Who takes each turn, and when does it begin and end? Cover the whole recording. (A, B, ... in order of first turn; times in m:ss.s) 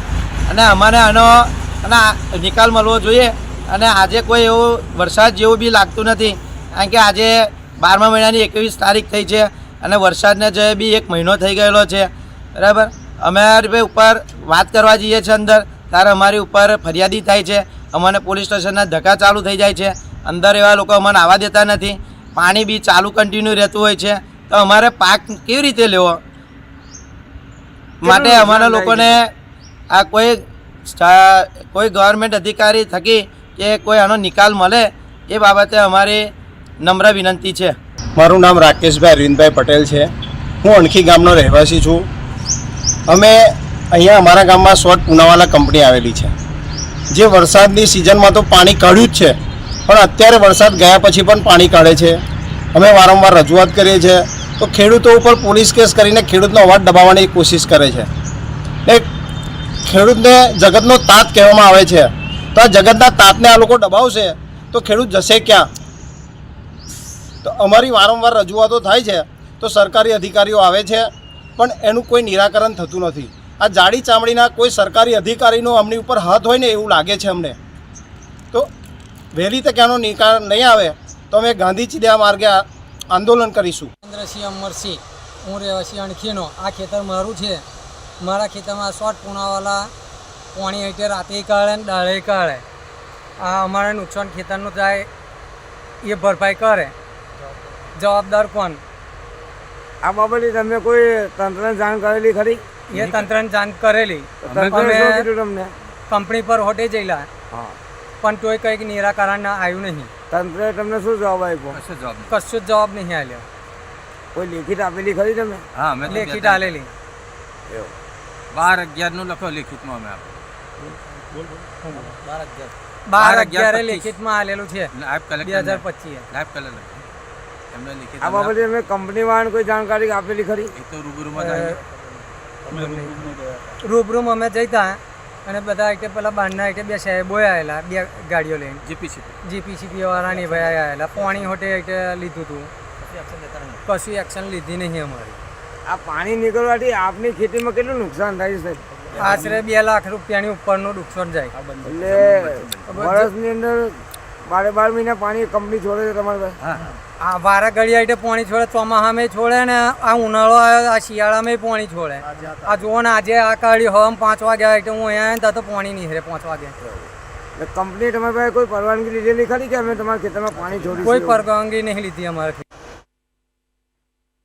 0:00.5-0:26.2 A
0:28.0-0:29.3 A
0:28.6-0:29.1 B
0:29.9-0:37.8 A
0:38.2-0:42.1 C
0:43.1-0:46.3 C
0:47.1-0:52.2 C
0:52.7-0:58.1 C
0:59.8-1:05.7 C
1:07.4-1:17.6 C
1:19.3-1:23.9 C
1:24.0-1:27.6 D
1:28.2-1:29.9 D
1:30.5-1:32.6 D
1:33.4-1:35.1 D
1:36.0-1:36.9 D
1:38.0-1:38.8 D
1:40.0-1:42.6 E
1:42.9-1:45.2 D
1:42.9-1:43.3 B
1:44.4-1:45.7 E
1:44.5-1:44.9 B
1:46.1-1:47.3 D
1:48.2-1:50.1 D
1:50.3-1:51.8 E
1:51.7-1:52.3 B
1:52.3-1:53.4 D
1:54.3-1:55.6 E
1:55.7-1:56.8 B
1:56.0-1:56.9 D
1:58.5-2:00.4 B
2:01.3-2:04.1 B
2:01.8-2:02.1 D
2:03.1-2:04.9 D
2:04.9-2:07.1 B
2:05.4-2:06.2 D
2:07.7-2:08.6 B
2:08.2-2:10.7 E
2:10.7-2:13.7 B
2:11.4-2:11.8 D
2:12.7-2:13.2 D
2:13.8-2:18.8 D
2:18.8-2:19.4 B
2:19.4-2:22.7 D
2:20.1-2:21.5 B
2:23.0-2:23.8 B
2:23.8-2:25.4 D
2:25.8-2:28.8 E
2:28.9-2:29.6 B
2:29.1-2:31.5 D
2:31.5-2:33.0 B
2:31.8-2:36.6 E
2:32.9-2:33.3 D
2:36.6-2:37.0 B
2:37.2-2:46.7 D
2:42.2-2:42.8 B
2:47.6-2:51.4 E
2:51.0-2:52.6 D